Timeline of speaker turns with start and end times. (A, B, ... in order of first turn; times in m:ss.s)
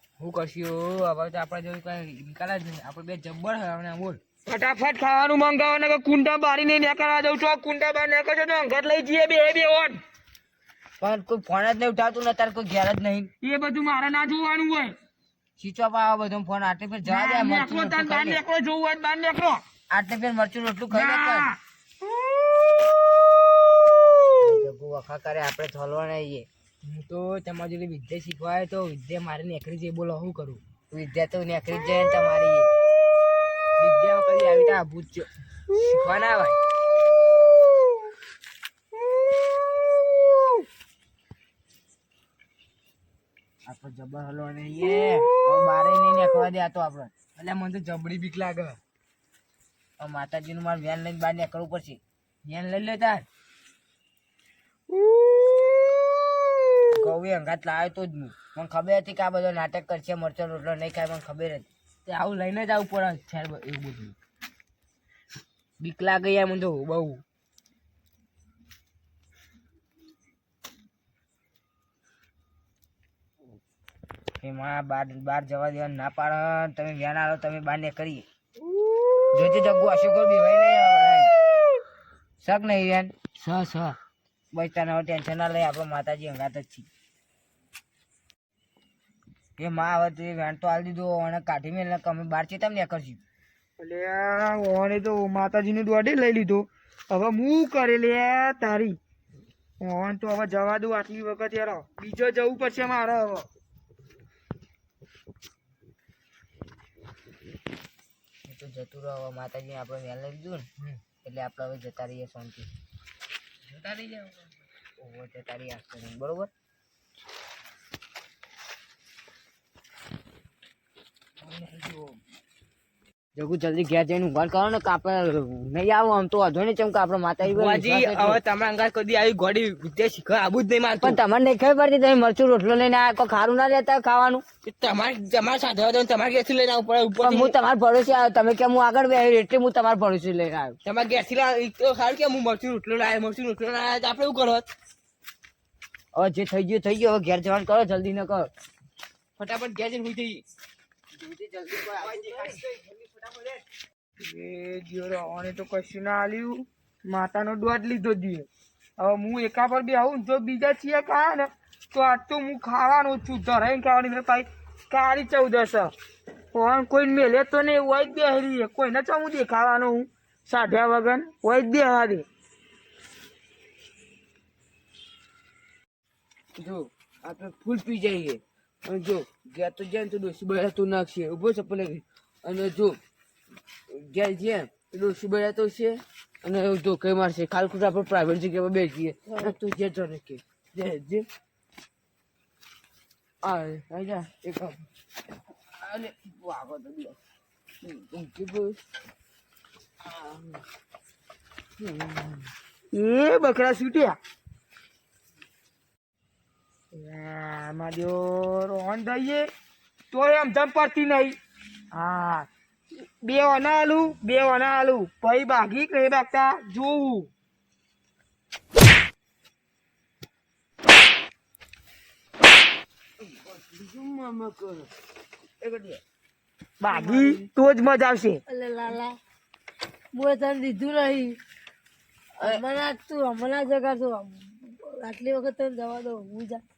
0:00.2-0:04.2 A
0:04.5-0:10.0 B
0:11.0-0:13.3 C
0:13.4-0:15.0 B
0:15.6-0:18.4 C
0:17.0-0:19.6 B
0:19.9-0:21.5 C
0:20.9-0:21.6 B
0:24.4-0:26.5 C
0:26.8-0:30.6 A
0:30.9-0:32.7 C
0:33.8-0:36.6 A
0:43.7-0:47.1 C
0:47.4-0:48.8 A
0:50.0-0:52.0 C
0:52.4-0:53.3 A
0:55.0-0:55.8 B
0:56.9-1:01.7 C
1:02.1-1:04.2 A
1:05.8-1:07.2 A
1:14.4-1:18.3 C
1:19.3-1:21.3 C
1:22.4-1:23.1 C
1:23.4-1:24.0 A
1:24.5-1:26.9 C
1:29.6-1:33.2 C
1:33.8-1:39.0 B
1:39.8-1:43.5 B
1:48.5-1:52.7 C
1:53.7-1:54.4 A
1:55.0-1:56.5 C
2:03.4-2:08.4 C
2:07.4-2:11.2 A
2:11.0-2:14.4 C
2:14.6-2:17.6 A
2:17.2-2:20.8 C
2:20.8-2:24.7 A
2:26.1-2:28.5 C
2:29.4-2:30.4 A
2:31.2-2:32.6 C
2:32.0-2:33.2 A
2:34.2-2:38.5 B
2:39.0-2:45.9 B
2:46.5-2:52.2 B
2:56.6-3:03.0 D
3:03.9-3:11.3 D
3:13.4-3:14.8 D
3:15.8-3:17.2 D
3:17.8-3:18.8 D
3:20.1-3:20.6 D
3:21.8-3:22.5 D
3:22.9-3:24.2 B
3:26.9-3:29.5 B
3:30.1-3:31.4 B
3:31.9-3:32.5 B
3:33.2-3:37.3 B
3:43.2-3:44.9 D
3:45.6-3:46.0 D
3:46.8-3:48.4 B
3:46.9-3:47.2 E
3:48.5-3:49.1 E
3:50.1-3:51.4 E
3:52.4-3:56.6 E